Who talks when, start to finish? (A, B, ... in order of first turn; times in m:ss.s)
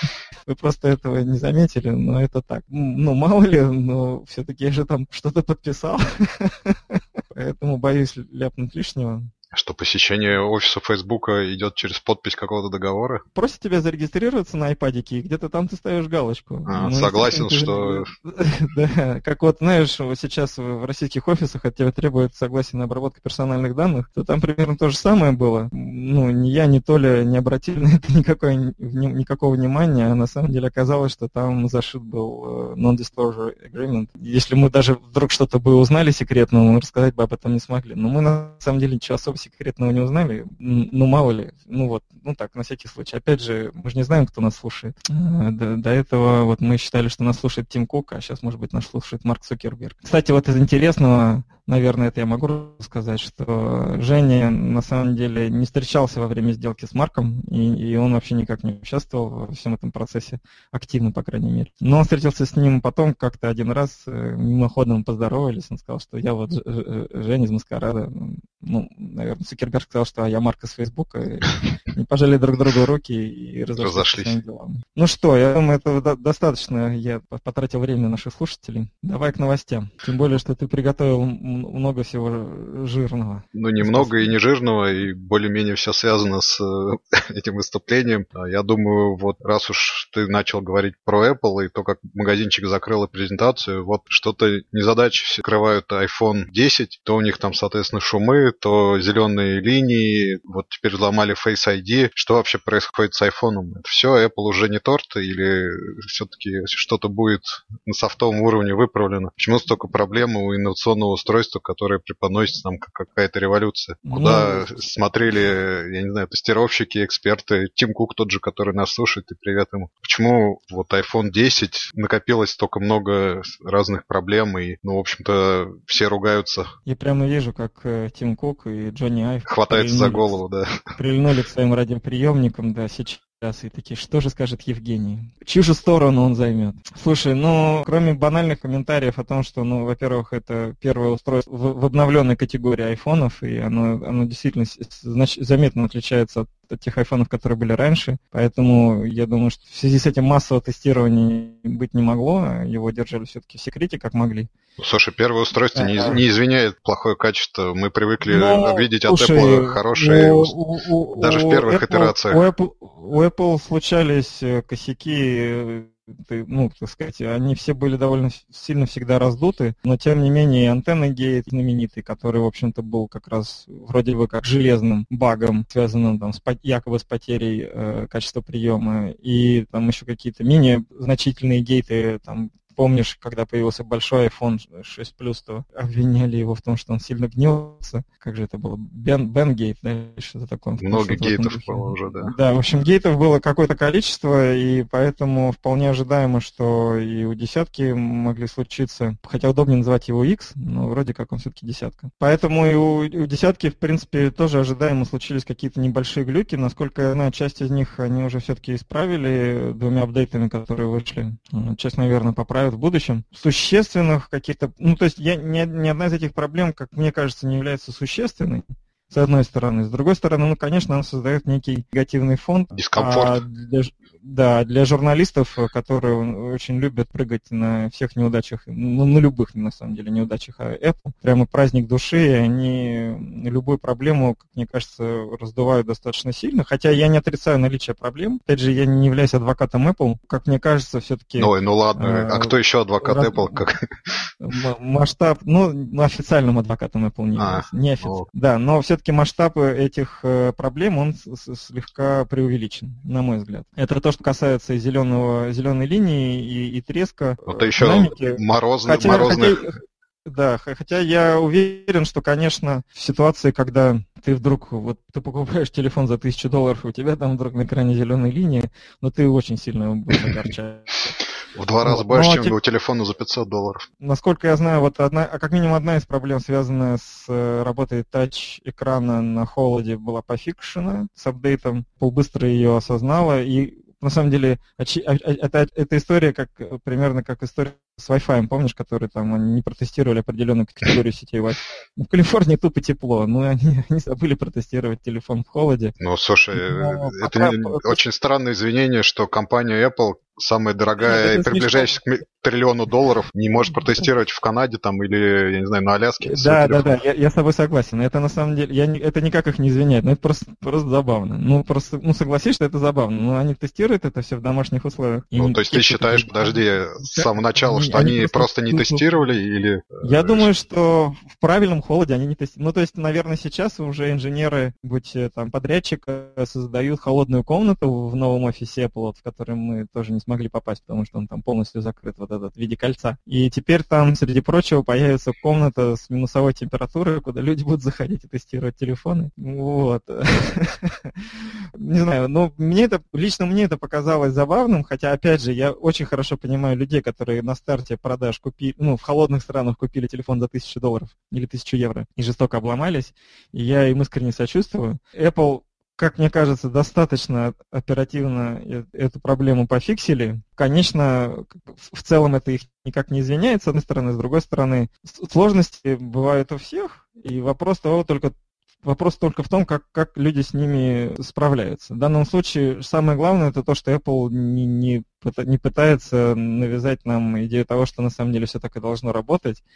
0:00.4-0:09.3 A
0:09.5-0:13.2 B
0:13.3-1:24.4 A
0:16.7-0:18.1 B
1:13.8-1:14.4 B
1:23.5-2:06.7 B
1:54.0-1:54.8 A
2:06.8-2:10.2 A
2:09.4-2:10.7 B
2:11.0-2:34.5 A
2:34.8-2:40.5 B
2:35.8-2:36.2 A
2:38.3-4:03.6 A
2:41.2-2:42.4 B
3:10.8-3:12.3 B
3:42.8-3:43.4 B
4:01.4-4:04.2 B
4:04.4-4:31.1 A
4:07.4-4:08.2 B
4:17.5-4:19.6 B
4:30.1-4:30.4 B
4:31.5-4:33.8 B
4:31.8-4:32.6 A
4:34.0-4:55.9 A
4:56.0-5:07.0 B
4:56.5-4:58.0 A
5:01.0-5:02.0 A
5:06.2-5:19.1 A
5:15.4-5:20.5 B
5:20.0-5:41.1 A
5:41.8-6:19.6 A